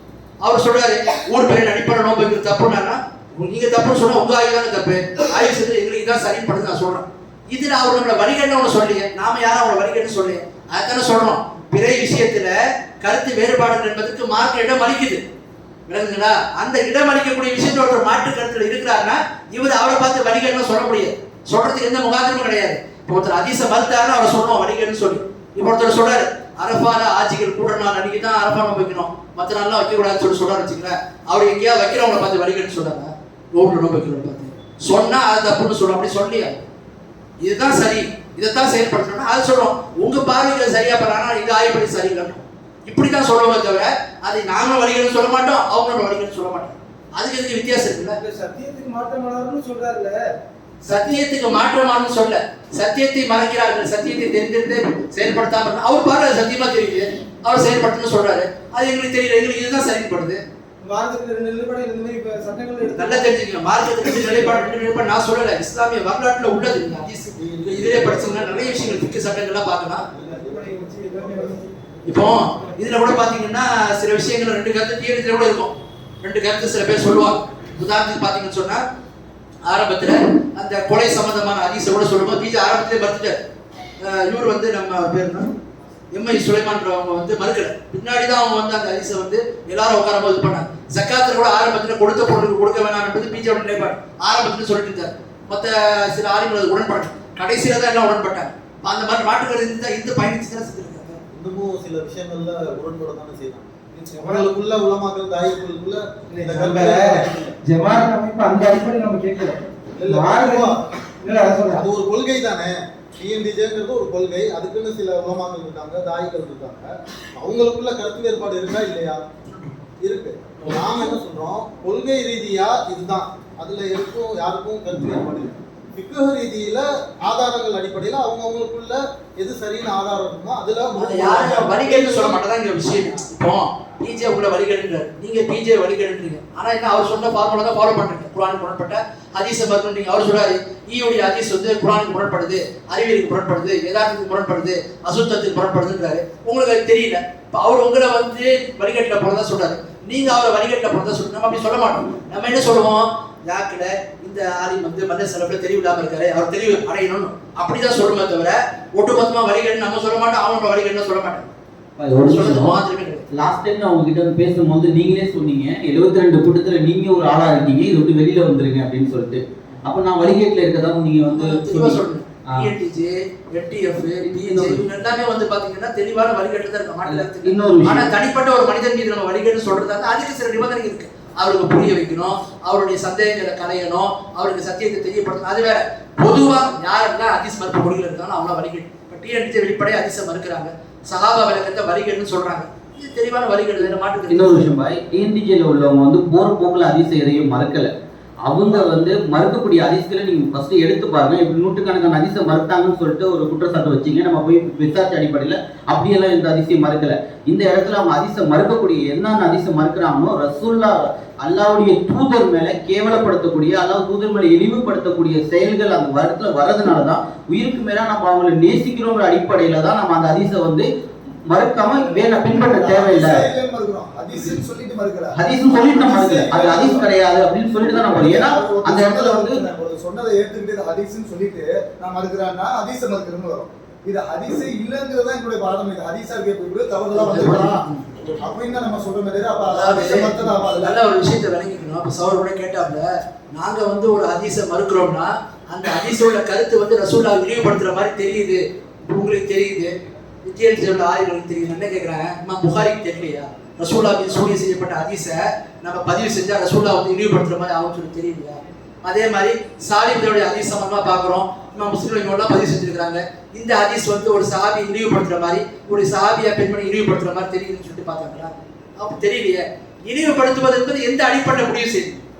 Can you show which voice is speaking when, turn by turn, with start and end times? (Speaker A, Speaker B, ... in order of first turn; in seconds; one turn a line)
Speaker A: 0.4-15.2
Speaker A: 15.9-36.6
Speaker A: 37.4-48.2
Speaker B: 48.1-50.2
Speaker A: 50.8-60.4
Speaker B: 50.9-51.2
Speaker B: 60.8-63.3
Speaker A: 63.0-70.0
Speaker B: 64.0-64.7
Speaker C: 67.4-69.0
Speaker C: 70.2-71.5
Speaker B: 70.3-71.7
Speaker A: 72.0-78.8
Speaker A: 79.7-83.4
Speaker A: 84.0-85.5
Speaker A: 86.1-101.2
Speaker C: 101.3-107.5
Speaker B: 104.1-104.5
Speaker B: 106.3-111.8
Speaker C: 109.9-110.8
Speaker C: 111.7-119.2
Speaker A: 119.5-119.7
Speaker C: 120.0-132.4
Speaker A: 130.9-161.5
Speaker D: 162.0-162.8
Speaker A: 162.1-163.2
Speaker D: 163.3-172.0
Speaker A: 171.3-194.7
Speaker D: 174.2-174.9
Speaker D: 177.0-178.1
Speaker D: 194.3-197.9
Speaker D: 198.4-220.9
Speaker D: 221.5-223.4
Speaker E: 222.0-227.1
Speaker D: 225.3-229.6
Speaker E: 227.9-241.0
Speaker A: 237.2-238.1
Speaker A: 239.7-249.9
Speaker A: 250.4-272.2